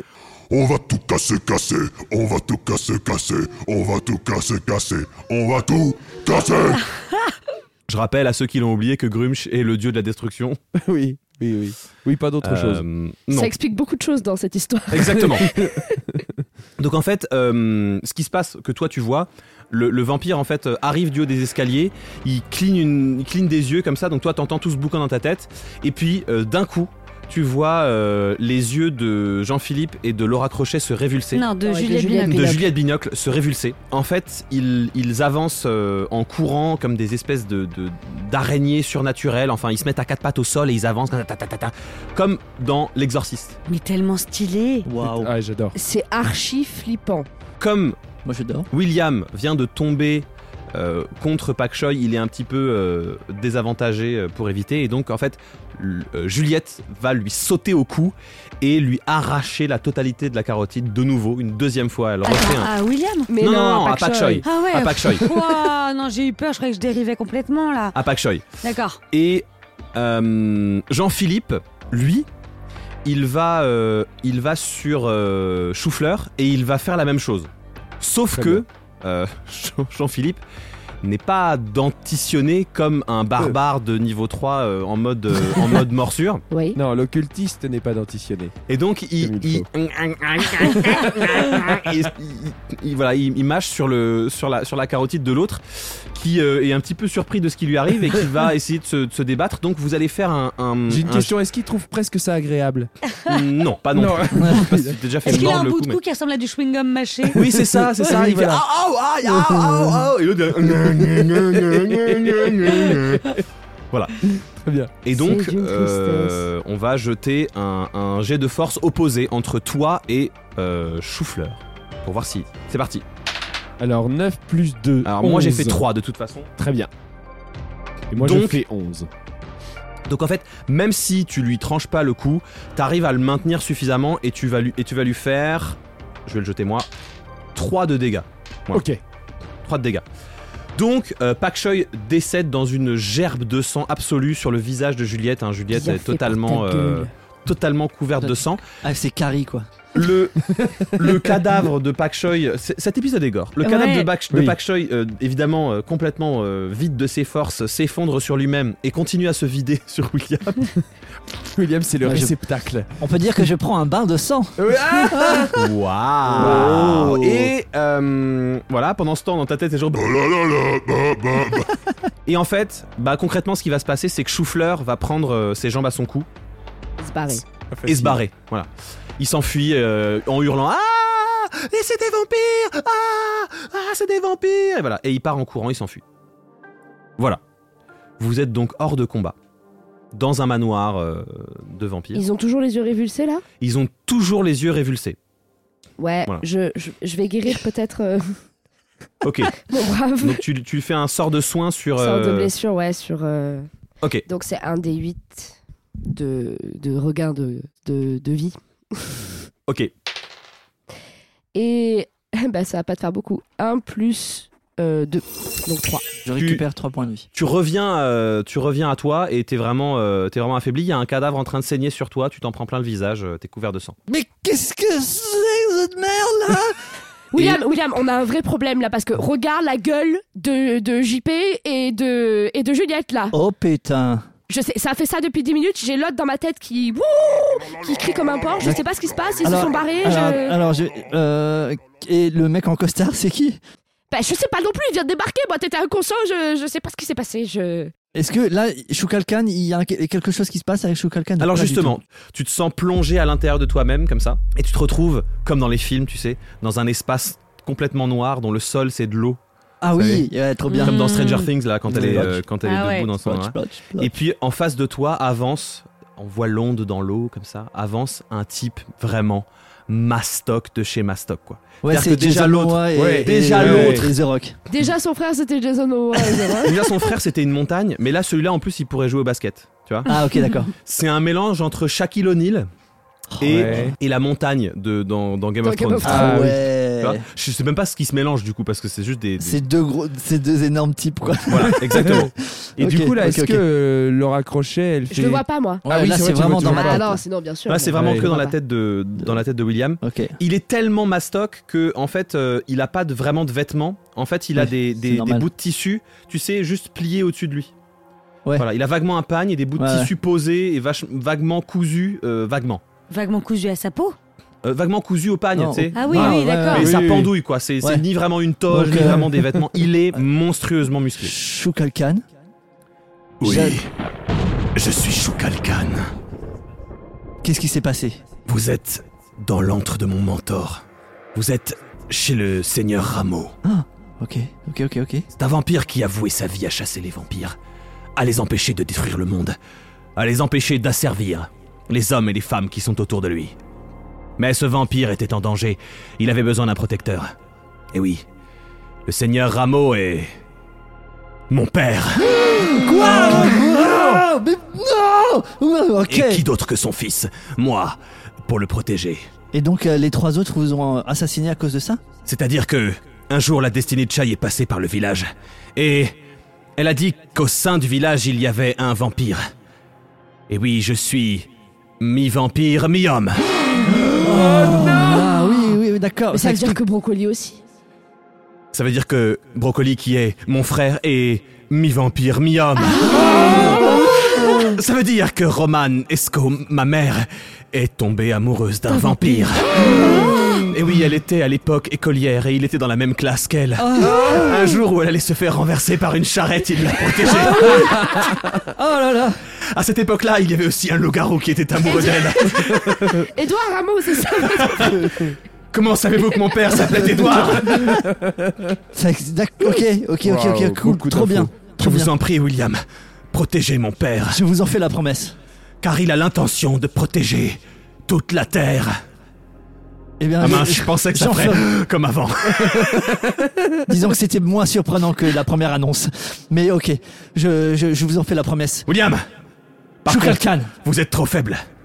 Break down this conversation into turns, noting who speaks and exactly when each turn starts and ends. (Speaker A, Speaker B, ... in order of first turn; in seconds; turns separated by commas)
Speaker A: 0.5-6.8, Speaker B: 7.9-10.6, Speaker C: 10.8-12.8, Speaker B: 12.4-13.5, Speaker D: 13.3-15.8, Speaker B: 14.9-15.5, Speaker C: 15.3-16.0, Speaker B: 16.8-31.4, Speaker E: 31.3-32.6, Speaker D: 31.6-32.7, Speaker B: 32.3-43.6, Speaker E: 43.7-44.9, Speaker F: 44.9-45.4, Speaker C: 45.1-45.8, Speaker D: 45.8-47.3, Speaker B: 47.6-48.0, Speaker F: 48.2-48.7, Speaker B: 48.7-62.7, Speaker E: 62.2-63.3, Speaker D: 63.3-64.5, Speaker B: 63.4-65.3, Speaker E: 64.4-68.0, Speaker B: 67.9-68.5, Speaker E: 68.6-69.0, Speaker B: 69.1-72.3, Speaker B: 73.0-80.4, Speaker C: 78.3-78.6, Speaker B: 81.0-86.4, Speaker C: 85.5-85.8, Speaker D: 86.5-86.8, Speaker C: 86.8-88.5, Speaker B: 88.7-101.3, Speaker C: 89.2-89.7, Speaker C: 100.9-102.9, Speaker B: 103.3-106.0, Speaker C: 103.9-105.0, Speaker F: 104.4-104.7, Speaker E: 105.2-107.4, Speaker B: 107.3-113.3, Speaker C: 107.4-108.6, Speaker C: 109.3-110.0, Speaker C: 110.7-113.4, Speaker B: 113.9-114.2, Speaker C: 114.5-114.9, Speaker B: 115.0-123.0, Speaker D: 115.1-116.5, Speaker C: 123.8-125.8, Speaker B: 125.0-126.5, Speaker C: 126.6-126.9, Speaker C: 128.1-129.1, Speaker B: 128.2-128.6, Speaker B: 130.1-136.9, Speaker B: 137.6-138.8, Speaker C: 138.7-139.0, Speaker B: 139.7-140.1, Speaker B: 140.8-148.6, Speaker D: 145.7-147.1, Speaker F: 148.2-149.7, Speaker B: 149.9-160.7, Speaker C: 150.5-151.2, Speaker E: 153.6-154.1, Speaker C: 154.3-154.6, Speaker C: 161.5-162.9, Speaker F: 162.0-162.3, Speaker F: 163.0-165.6, Speaker C: 164.6-165.6, Speaker B: 165.6-170.1, Speaker F: 166.3-167.3, Speaker C: 166.3-167.5, Speaker A: 169.9-171.7, Speaker B: 172.3-176.3, Speaker D: 177.0-177.4, Speaker C: 177.7-178.2, Speaker B: 177.9-186.0, Speaker B: 188.2-189.4, Speaker B: 190.1-192.2, Speaker D: 192.1-193.4, Speaker B: 193.6-195.2, Speaker D: 196.0-198.4, Speaker B: 199.2-199.6, Speaker D: 199.6-200.4, Speaker B: 200.2-202.5, Speaker D: 202.0-203.7, Speaker D: 204.3-209.2, Speaker D: 211.5-216.0, Speaker F: 216.2-217.3, Speaker B: 216.4-216.6, Speaker B: 217.3-224.0, Speaker F: 224.1-226.8, Speaker D: 227.3-233.4, Speaker F: 233.3-234.3, Speaker D: 234.5-240.6, Speaker F: 239.4-243.6, Speaker D: 244.1-247.9, Speaker F: 248.2-252.0, Speaker B: 251.4-259.4, Speaker F: 259.8-261.4, Speaker B: 259.9-260.3, Speaker E: 260.7-261.5, Speaker B: 260.8-274.1, Speaker F: 261.9-262.5, Speaker E: 262.6-263.1, Speaker F: 263.2-264.1, Speaker F: 271.8-274.6, Speaker C: 272.9-274.1, Speaker D: 274.7-276.9, Speaker F: 276.2-276.6, Speaker B: 276.6-280.1, Speaker F: 280.1-280.7, Speaker B: 280.8-282.7, Speaker F: 283.4-284.0, Speaker B: 283.4-289.6, Speaker C: 283.5-283.9, Speaker D: 285.6-286.5, Speaker F: 286.0-287.3, Speaker C: 286.1-286.5, Speaker F: 289.4-293.6, Speaker B: 291.5-292.3, Speaker C: 291.9-297.1, Speaker D: 295.1-295.8, Speaker F: 295.9-297.2, Speaker D: 296.6-298.6, Speaker B: 297.7-307.7, Speaker C: 297.9-298.3, Speaker F: 299.2-299.4, Speaker F: 300.0-300.4, Speaker F: 304.6-305.5, Speaker B: 308.6-312.8, Speaker F: 309.8-310.1, Speaker E: 313.1-314.2, Speaker B: 314.6-321.3, Speaker F: 315.6-318.0, Speaker E: 315.9-316.9, Speaker F: 318.7-320.2, Speaker F: 321.2-322.2, Speaker B: 323.4-323.9, Speaker F: 323.4-323.8, Speaker B: 324.8-326.1, Speaker F: 327.4-328.2, Speaker B: 328.5-330.8, Speaker B: 331.4-333.6, Speaker F: 333.6-335.3, Speaker B: 335.3-337.6, Speaker B: 338.2-339.6, Speaker B: 340.2-343.6, Speaker B: 344.4-347.3, Speaker B: 347.9-348.2, Speaker B: 349.1-350.3, Speaker B: 351.5-352.3, Speaker F: 352.2-356.4, Speaker B: 352.9-353.5, Speaker B: 356.1-359.3, Speaker F: 359.5-362.0, Speaker B: 362.2-366.2, Speaker B: 366.8-369.4, Speaker B: 370.5-374.0, Speaker F: 373.8-376.8, Speaker D: 376.3-377.6, Speaker B: 378.7-398.2, Speaker E: 383.0-383.6, Speaker F: 383.1-384.5, Speaker E: 389.0-389.5, Speaker F: 389.8-390.6, Speaker F: 393.8-394.8, Speaker F: 397.2-399.4, Speaker B: 399.7-403.3, Speaker D: 403.2-405.2, Speaker B: 404.3-408.1, Speaker F: 406.7-408.1, Speaker C: 407.9-408.7, Speaker F: 408.9-412.1, Speaker C: 410.2-411.6, Speaker B: 411.8-412.8, Speaker B: 413.3-414.4, Speaker F: 414.3-415.4, Speaker B: 415.8-419.0, Speaker F: 420.2-421.7, Speaker B: 420.4-423.3, Speaker F: 423.9-428.9, Speaker B: 428.9-429.3, Speaker B: 430.0-431.6, Speaker F: 430.1-430.7